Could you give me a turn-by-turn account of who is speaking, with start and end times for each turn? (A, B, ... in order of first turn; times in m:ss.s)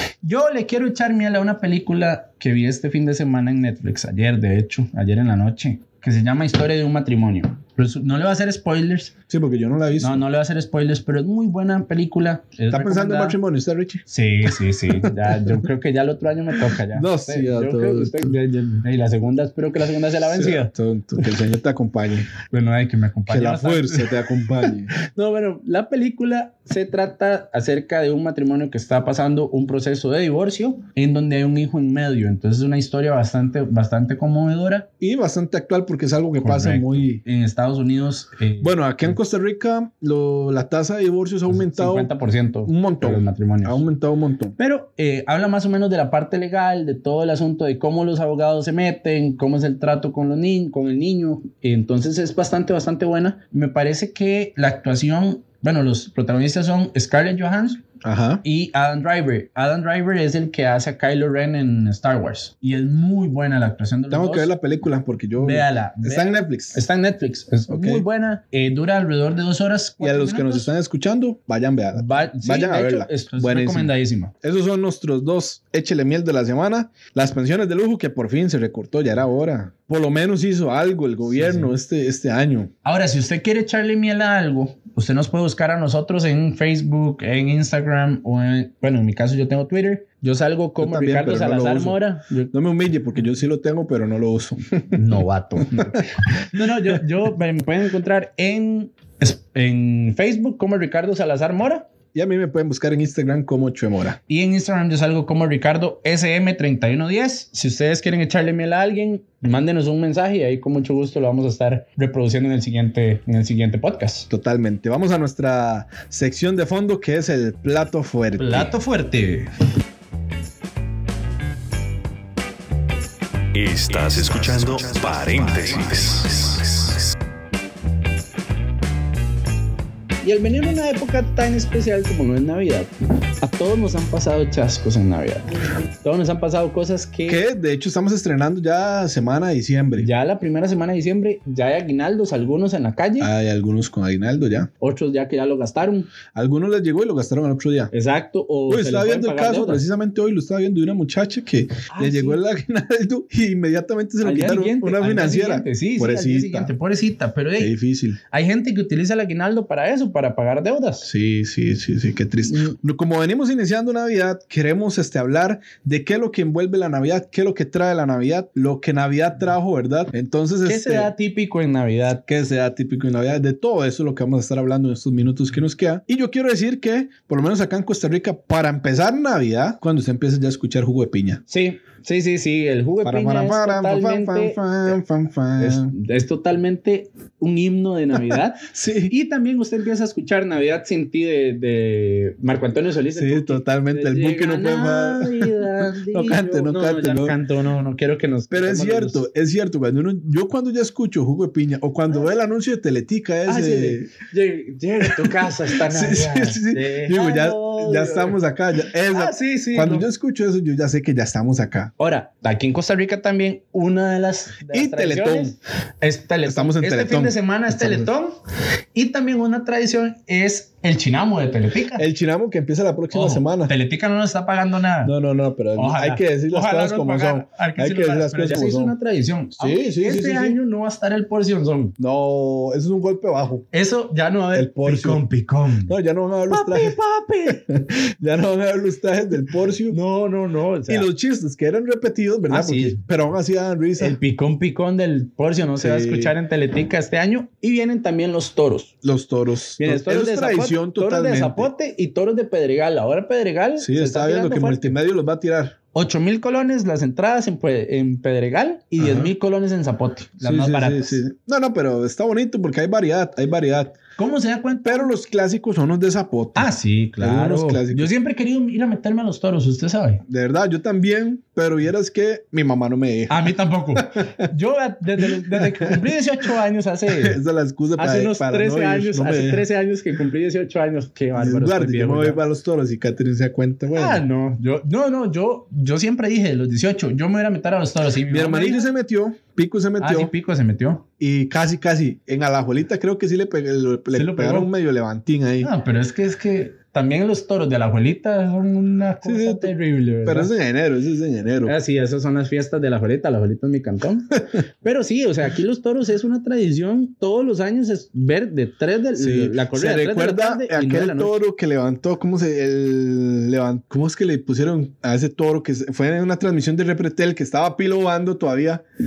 0:00.2-0:09.1 A
0:09.3-0:10.2 B
0:10.0-0:13.4 A
0:12.7-0:14.0 B
0:14.1-0:20.7 A
0:14.9-0:15.7 B
0:16.7-0:18.4 B
0:20.3-0:22.4 B
0:22.5-0:34.9 A
0:23.3-0:24.9 B
0:35.0-0:37.2 B
0:36.4-0:38.8 A
0:38.6-0:42.1 B
0:41.5-0:43.8 A
0:42.7-0:44.6 B
0:44.6-0:57.8 A
0:58.0-0:58.4 B
0:58.4-1:04.5 A
1:04.1-1:06.8 B
1:05.4-1:10.7 A
1:07.7-1:08.0 B
1:10.0-1:22.7 B
1:11.9-1:14.3 A
1:21.3-1:21.7 A
1:22.8-1:32.5 A
1:30.8-1:32.0 B
1:32.5-1:35.0 B
1:34.9-1:41.9 A
1:35.6-1:36.0 B
1:36.6-1:37.0 B
1:42.1-1:44.2 B
1:44.3-1:54.3 A
1:54.3-1:58.7 B
1:58.4-1:59.5 A
2:03.5-2:07.1 C
2:10.2-2:15.5 A
2:16.0-2:17.4 A
2:17.3-2:20.1 B
2:20.0-2:23.3 A
2:23.2-2:24.7 B
2:24.8-2:26.1 A
2:26.3-2:27.9 B
2:27.9-2:29.8 A
2:28.7-2:36.7 B
2:31.9-2:32.4 A
2:34.2-2:37.7 A
2:37.6-2:38.2 B
2:38.3-2:41.1 A
2:41.0-2:51.1 B
2:42.5-2:42.8 A
2:50.6-2:52.2 A
2:52.3-3:01.4 B
3:01.5-3:05.0 A
3:03.0-3:05.9 B
3:05.6-3:19.2 A
3:08.1-3:09.1 B
3:13.1-3:17.4 B
3:18.5-3:24.1 B
3:23.5-3:28.4 A
3:25.0-3:31.9 B
3:29.0-3:30.1 A
3:32.0-3:38.4 A
3:34.7-3:35.6 B
3:36.5-3:38.1 B
3:38.9-3:42.0 A
3:42.0-3:43.7 B
3:43.1-3:45.1 A
3:45.0-3:49.0 B
3:45.8-3:52.0 A
3:49.6-3:50.6 B
3:52.0-3:53.7 B
3:53.7-3:55.9 A
3:54.5-3:55.2 B
3:55.9-4:00.0 B
3:56.5-3:57.6 A
3:59.9-4:01.1 A
4:00.9-4:04.2 B
4:02.5-4:03.0 A
4:04.0-4:08.9 A
4:05.8-4:06.4 B
4:09.0-4:11.7 B
4:09.8-4:15.0 A
4:13.8-4:15.8 B
4:15.9-4:21.2 A
4:19.0-4:19.3 B
4:20.4-4:24.0 B
4:24.2-4:25.1 A
4:24.8-4:28.1 B
4:26.6-4:30.2 A
4:30.3-4:34.5 B
4:33.3-4:37.4 A
4:35.2-4:36.1 B
4:37.1-4:39.7 B
4:38.0-4:42.4 A
4:41.4-4:44.2 B
4:43.9-4:48.9 A
4:48.3-4:50.3 B
4:50.0-4:51.0 A
4:51.2-4:55.7 B
4:54.1-4:54.7 A
4:55.6-5:00.5 A
4:59.2-5:01.8 B
5:01.6-5:11.4 A
5:09.2-5:18.8 B